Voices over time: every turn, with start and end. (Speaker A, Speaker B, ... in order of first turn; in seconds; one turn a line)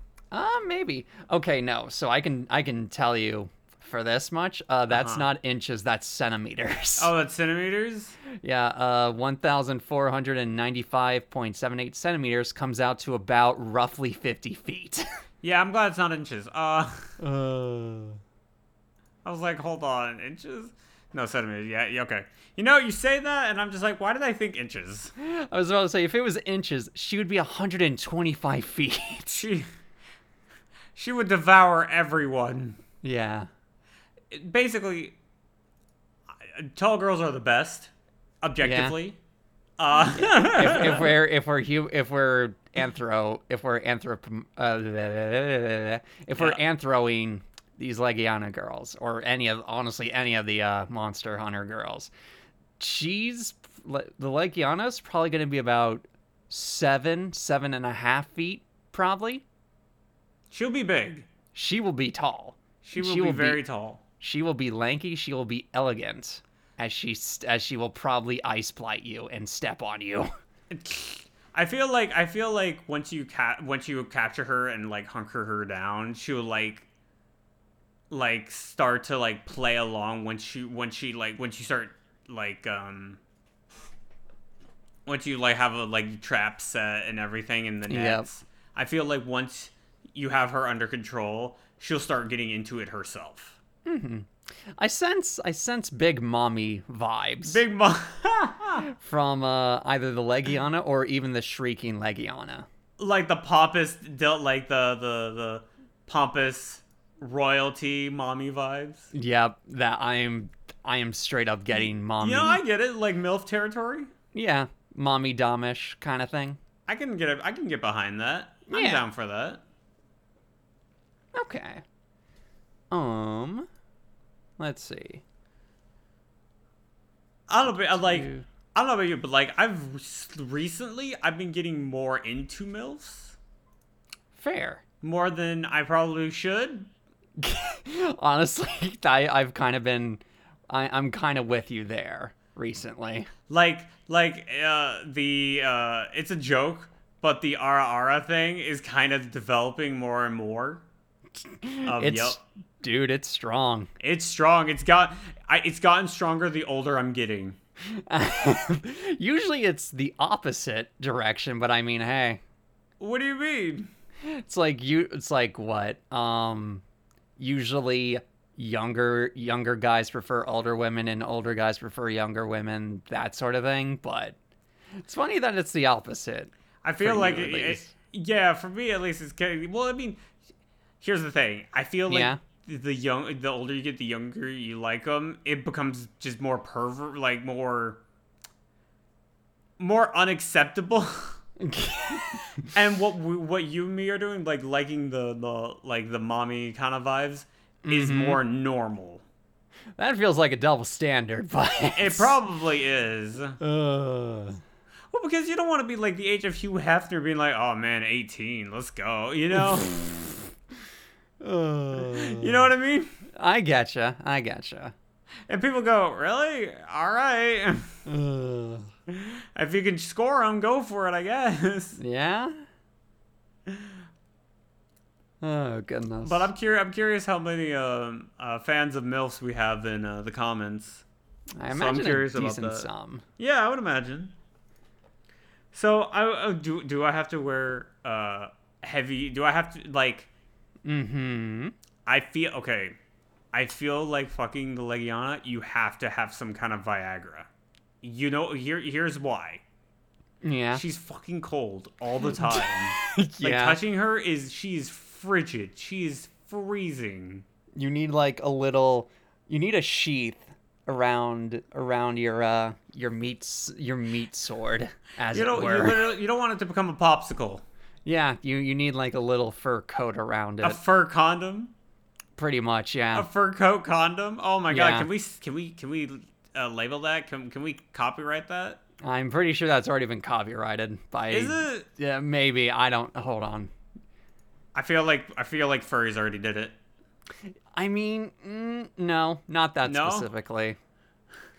Speaker A: 0.3-7.1
Speaker B: 4.9-5.3
Speaker B: 7.0-8.2
Speaker A: 8.4-15.0
Speaker B: 15.4-17.1
Speaker A: 17.2-18.2
Speaker B: 19.2-25.1
Speaker A: 25.2-29.5
Speaker B: 29.3-29.7
Speaker B: 30.9-32.8
Speaker A: 33.0-33.5
Speaker B: 34.3-35.2
Speaker B: 36.3-37.9
Speaker B: 38.4-39.2
Speaker A: 38.6-39.0
Speaker B: 39.8-41.1
Speaker A: 40.1-52.1
Speaker A: 52.8-59.4
Speaker B: 60.5-61.3
Speaker A: 61.5-63.6
Speaker B: 62.8-64.0
Speaker A: 64.2-70.3
Speaker B: 70.7-76.9
Speaker B: 78.1-83.2
Speaker B: 85.1-93.6
Speaker A: 87.9-88.3
Speaker A: 93.8-97.6
Speaker B: 97.5-98.9
Speaker A: 98.8-102.7
Speaker B: 103.0-109.1
Speaker A: 109.1-112.6
Speaker B: 112.2-114.1
Speaker A: 114.3-116.6
Speaker B: 116.9-119.6
Speaker A: 118.7-119.1
Speaker A: 121.3-121.8
Speaker A: 122.9-123.7
Speaker A: 124.6-125.2
Speaker B: 127.5-133.4
Speaker A: 127.7-128.5
Speaker A: 134.3-134.8
Speaker B: 135.0-136.9
Speaker A: 137.4-143.3
Speaker B: 143.5-150.8
Speaker A: 151.5-153.9
Speaker B: 151.8-152.4
Speaker B: 154.0-157.6
Speaker A: 157.9-162.4
Speaker B: 163.0-163.9
Speaker A: 164.2-166.8
Speaker A: 167.4-174.4
Speaker A: 175.0-177.9
Speaker B: 176.8-180.2
Speaker B: 181.0-188.0
Speaker A: 182.1-182.4
Speaker B: 189.8-191.4
Speaker A: 191.6-192.7
Speaker B: 192.7-199.2
Speaker A: 197.8-198.4
Speaker A: 200.0-202.4
Speaker B: 201.9-203.6
Speaker A: 203.6-204.6
Speaker B: 205.1-210.2
Speaker A: 209.6-210.4
Speaker A: 211.4-212.7
Speaker B: 211.9-213.2
Speaker A: 213.4-214.9
Speaker B: 215.5-217.9
Speaker A: 218.1-218.9
Speaker B: 219.1-222.0
Speaker A: 222.0-222.7
Speaker B: 223.7-223.9
Speaker A: 225.4-226.5
Speaker B: 226.2-231.1
Speaker A: 231.6-233.2
Speaker B: 231.7-234.3
Speaker B: 235.7-240.3
Speaker A: 240.8-241.7
Speaker B: 242.1-243.0
Speaker B: 243.5-247.5
Speaker B: 248.0-249.6
Speaker A: 250.4-250.8
Speaker B: 250.7-257.4
Speaker A: 252.2-253.8
Speaker A: 257.8-266.1
Speaker B: 265.3-267.6
Speaker A: 268.1-270.8
Speaker B: 270.6-271.7
Speaker A: 272.4-273.3
Speaker B: 273.1-278.8
Speaker A: 274.7-275.1
Speaker A: 279.0-283.7
Speaker B: 281.3-281.9
Speaker B: 284.7-286.8
Speaker A: 287.7-290.8
Speaker B: 289.8-290.3